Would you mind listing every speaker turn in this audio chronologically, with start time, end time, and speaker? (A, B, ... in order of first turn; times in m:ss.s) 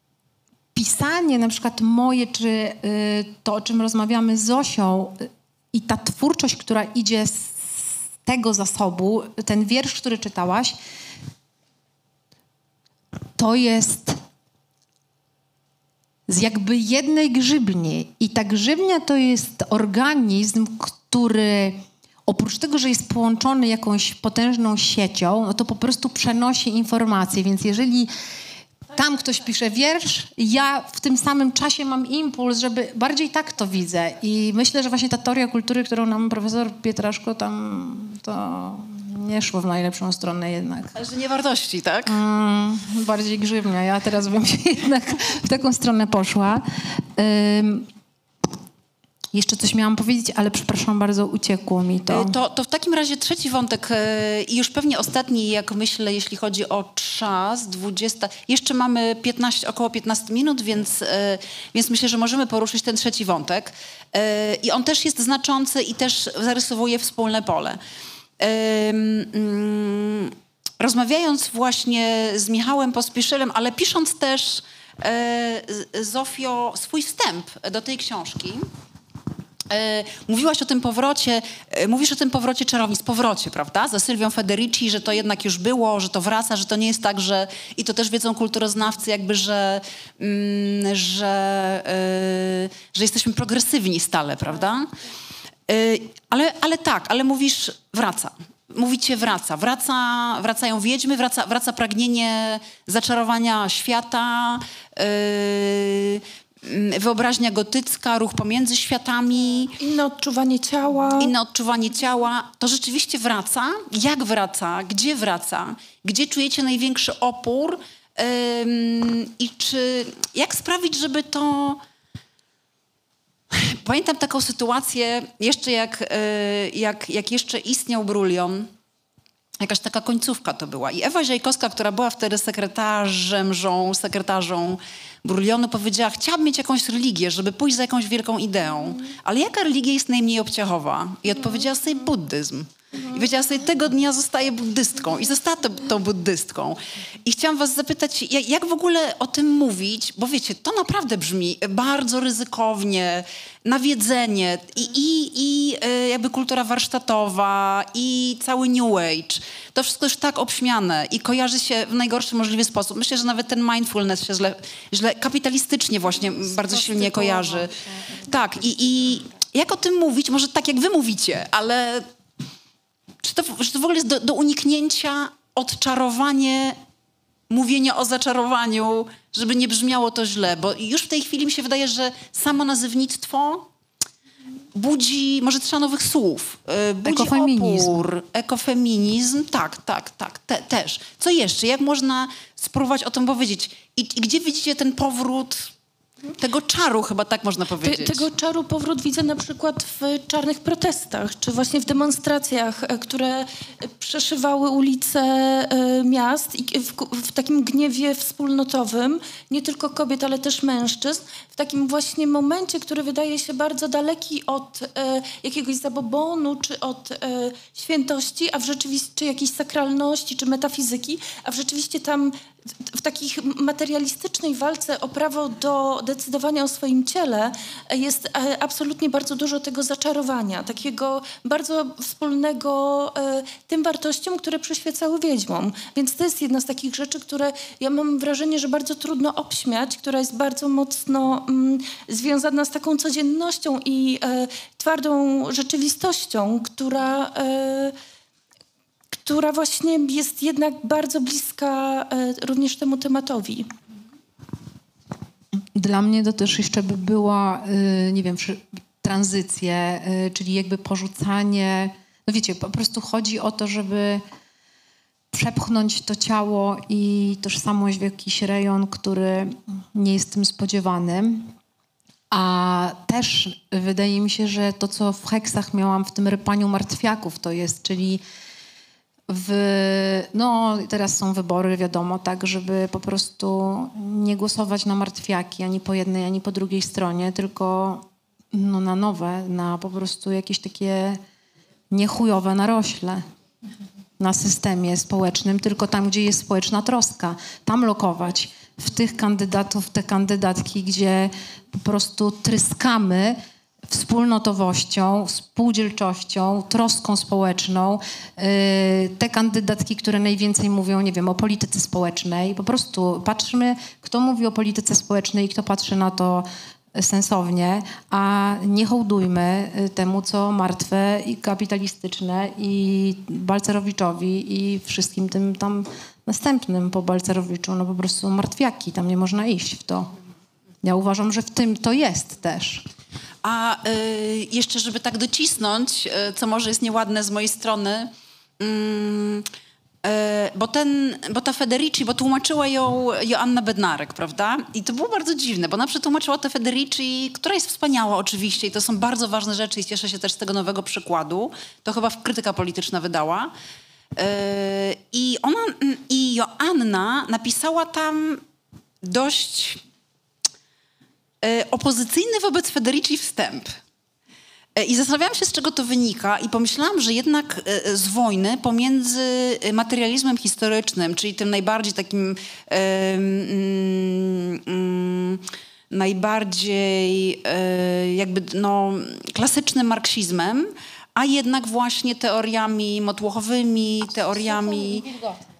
0:00.7-0:10.8 A
0:13.4-0:14.2 A
0:16.3-0:28.1 A
0:28.9-0:40.9 A
0:41.0-0:42.2 B
0:42.1-0:47.9 A
0:49.3-0:52.4 A
0:52.1-1:07.8 B
1:08.4-1:18.7 B
1:19.7-1:34.9 B
1:35.7-1:49.7 B
1:49.8-1:51.3 C
1:51.2-2:01.8 B
2:03.5-2:08.7 B
2:09.6-2:47.7 B
2:46.4-2:49.1 A
2:48.3-2:52.1 B
2:53.2-2:56.8 B
2:57.5-3:03.7 B
3:04.7-3:15.7 B
3:07.0-3:08.0 A
3:16.4-3:18.3 B
3:17.8-4:08.0 C
4:09.1-4:13.7 C
4:15.7-4:24.2 A
4:25.3-4:31.5 A
4:32.3-4:38.2 A
4:39.3-4:51.2 A
4:51.9-4:53.2 A
4:54.2-5:30.1 A
5:30.8-5:32.8 A
5:33.4-5:39.4 B
5:40.0-5:53.5 B
5:54.2-5:58.4 B
5:59.0-5:59.8 B
6:01.4-6:03.7 B
6:04.8-6:25.1 B
6:24.3-6:25.4 A